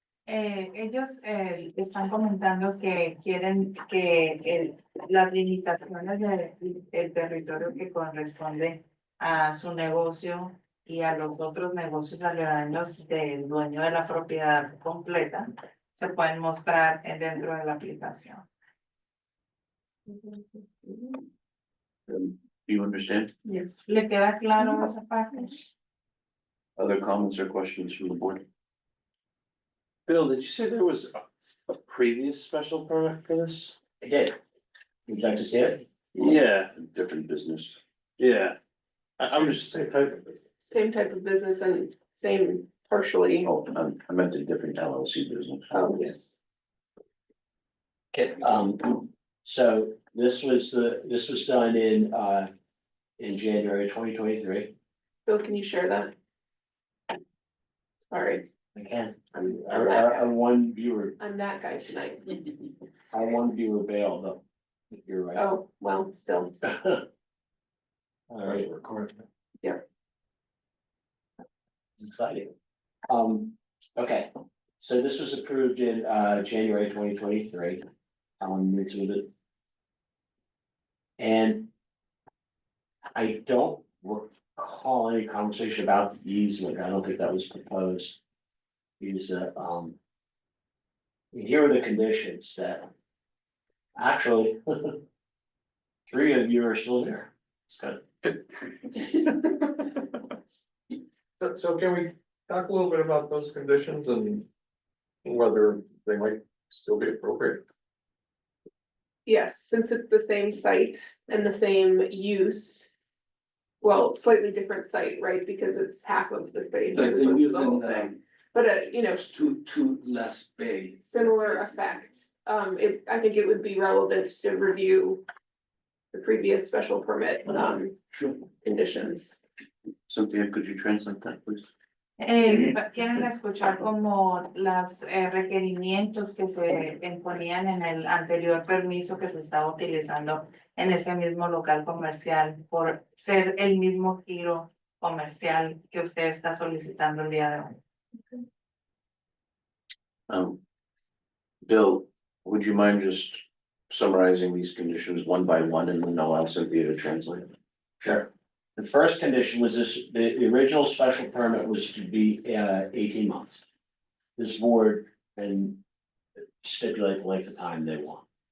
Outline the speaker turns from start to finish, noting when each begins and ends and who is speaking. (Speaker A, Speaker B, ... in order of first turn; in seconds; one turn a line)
Speaker A: 0.3-18.5
Speaker B: 20.1-21.2
Speaker C: 22.1-23.3
Speaker B: 23.5-23.8
Speaker A: 23.9-25.6
Speaker C: 26.8-28.4
Speaker D: 30.1-31.2
Speaker D: 31.7-33.7
Speaker E: 34.0-34.4
Speaker E: 35.1-35.9
Speaker D: 36.2-36.7
Speaker C: 36.7-37.8
Speaker D: 38.2-38.6
Speaker D: 39.2-40.0
Speaker E: 39.3-39.9
Speaker B: 40.7-43.5
Speaker C: 43.4-45.9
Speaker B: 45.7-46.4
Speaker E: 48.1-52.5
Speaker E: 53.2-54.7
Speaker B: 55.3-56.1
Speaker B: 58.0-58.5
Speaker E: 58.8-61.2
Speaker B: 59.3-60.3
Speaker B: 61.2-62.4
Speaker E: 63.1-65.5
Speaker B: 65.4-66.5
Speaker E: 66.6-67.0
Speaker E: 72.0-72.5
Speaker E: 73.1-77.9
Speaker E: 78.4-79.3
Speaker E: 81.2-81.7
Speaker E: 83.2-88.2
Speaker E: 89.0-90.0
Speaker E: 91.3-92.9
Speaker E: 94.0-95.0
Speaker E: 96.1-98.1
Speaker F: 101.4-104.5
Speaker F: 105.2-107.6
Speaker B: 109.3-112.9
Speaker B: 113.8-119.2
Speaker G: 116.9-118.2
Speaker G: 119.1-121.8
Speaker B: 121.1-125.2
Speaker B: 126.1-128.0
Speaker B: 128.6-129.4
Speaker C: 130.1-131.7
Speaker A: 132.2-147.8
Speaker C: 150.3-150.6
Speaker C: 151.6-157.5
Speaker E: 158.0-163.6
Speaker E: 164.4-165.8
Speaker E: 166.6-168.2